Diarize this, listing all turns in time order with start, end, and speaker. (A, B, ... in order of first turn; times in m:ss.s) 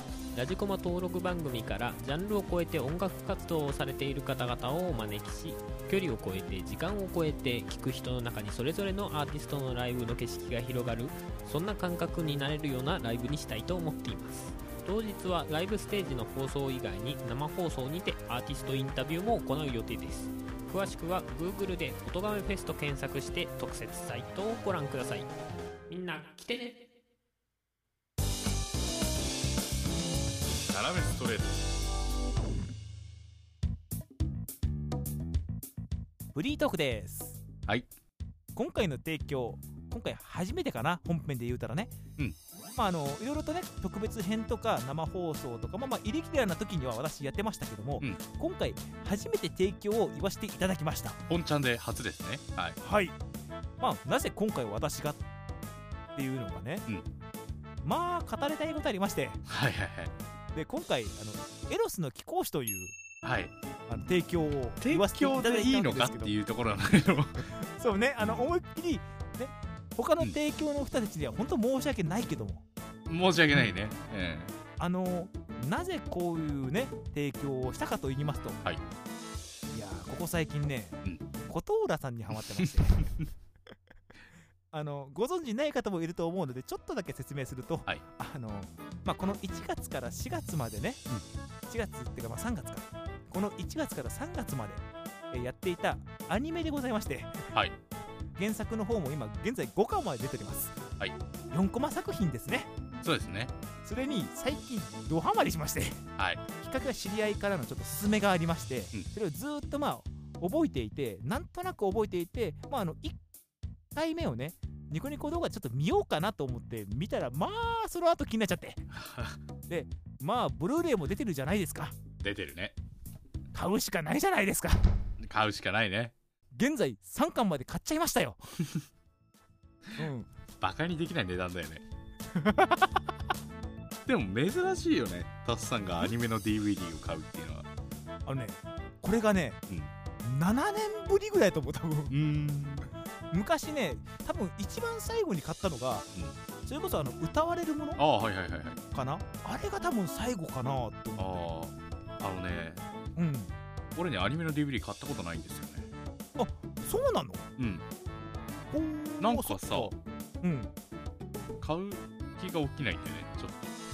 0:00.3-0:25.3 A
0:25.9-0:26.8 A
0:30.5-0:31.7 B
0:36.3-0:37.4 C
0:38.6-0:41.9 C
0:42.8-0:51.2 C
0:51.3-0:52.8 B
0:52.8-0:53.2 C
0:53.8-0:55.2 C
0:56.2-0:56.9 C
0:57.8-0:59.4 C
0:59.5-1:00.1 B
1:00.5-1:03.0 C
1:03.2-1:03.5 B
1:03.9-1:06.3 C
1:04.8-1:07.4 B
1:07.4-1:12.6 C
1:13.1-1:14.6 B
1:14.8-1:18.6 C
1:19.7-1:23.1 C
1:22.6-1:23.0 B
1:24.7-1:31.0 C
1:31.7-1:37.5 C
1:38.4-1:40.8 C
1:41.5-1:42.7 C
1:43.0-1:43.5 B
1:43.8-1:53.2 C
1:54.0-1:58.9 C
1:58.9-1:59.4 B
1:59.7-2:01.9 C
2:02.2-2:02.8 B
2:03.5-2:04.8 C
2:05.2-2:06.1 B
2:06.6-2:08.4 C
2:10.0-2:10.3 C
2:10.6-2:11.8 B
2:12.3-2:13.0 C
2:14.1-2:17.7 B
2:18.3-2:19.6 C
2:20.2-2:22.2 C
2:22.1-2:22.9 B
2:23.3-2:26.1 C
2:26.6-2:28.0 C
2:28.0-2:28.8 B
2:28.9-2:31.4 C
2:31.2-2:32.8 B
2:33.2-2:33.5 C
2:34.0-2:35.9 B
2:36.4-2:37.5 C
2:37.6-2:37.8 B
2:38.7-2:40.7 C
2:39.2-2:39.9 B
2:41.6-2:43.7 B